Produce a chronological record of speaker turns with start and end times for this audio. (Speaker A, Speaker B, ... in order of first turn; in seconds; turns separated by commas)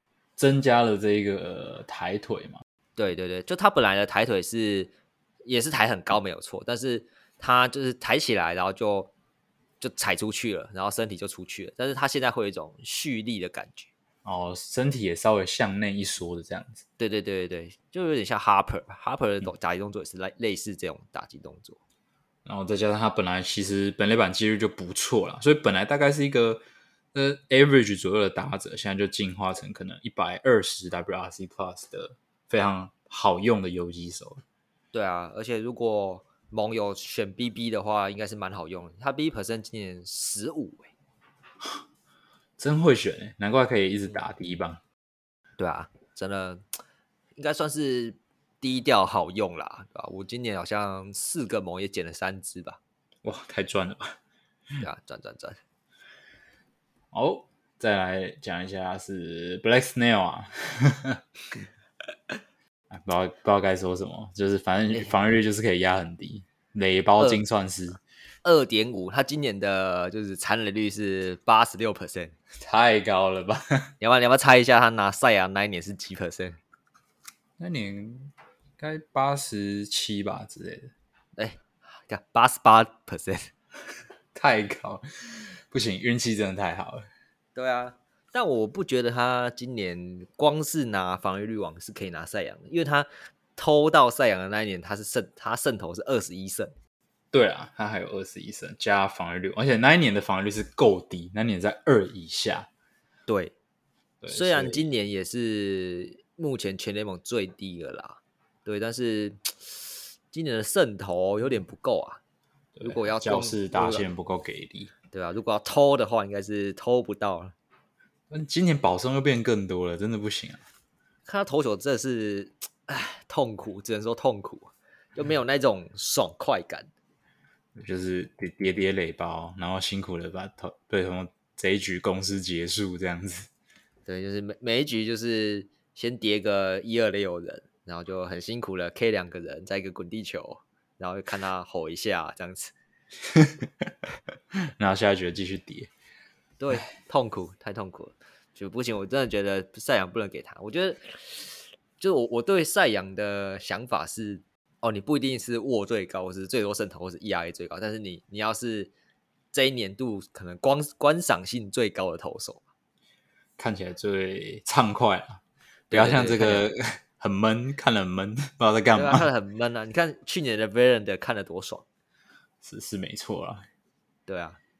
Speaker A: 0.4-2.6, Speaker B: 3.0-4.9, Speaker B: 5.4-9.1, Speaker B: 9.8-13.9, Speaker A: 14.2-16.8, Speaker B: 17.0-21.8, Speaker A: 22.4-34.4, Speaker B: 34.9-40.9, Speaker A: 42.6-44.8, Speaker B: 45.6-46.6, Speaker B: 47.4-52.8, Speaker A: 53.2-54.2, Speaker B: 54.8-55.6, Speaker A: 57.1-61.2, Speaker A: 62.9-68.0, Speaker B: 68.4-72.3, Speaker A: 72.6-73.9, Speaker B: 74.0-76.6, Speaker A: 77.6-80.9, Speaker B: 81.3-83.5, Speaker A: 84.3-87.0, Speaker B: 87.5-96.7, Speaker A: 97.3-102.7, Speaker B: 103.3-103.5, Speaker A: 104.2-104.9, Speaker B: 104.3-112.2, Speaker A: 112.8-114.9, Speaker B: 112.8-114.0, Speaker B: 115.1-117.5, Speaker A: 118.3-120.6, Speaker B: 121.2-126.9, Speaker A: 127.8-133.5, Speaker B: 134.1-142.7, Speaker A: 143.3-143.7, Speaker A: 144.8-145.9, Speaker B: 146.6-158.9, Speaker B: 159.5-162.6, Speaker A: 163.6-169.3, Speaker B: 165.9-166.7, Speaker B: 168.9-171.8, Speaker A: 172.6-173.7, Speaker B: 174.3-174.6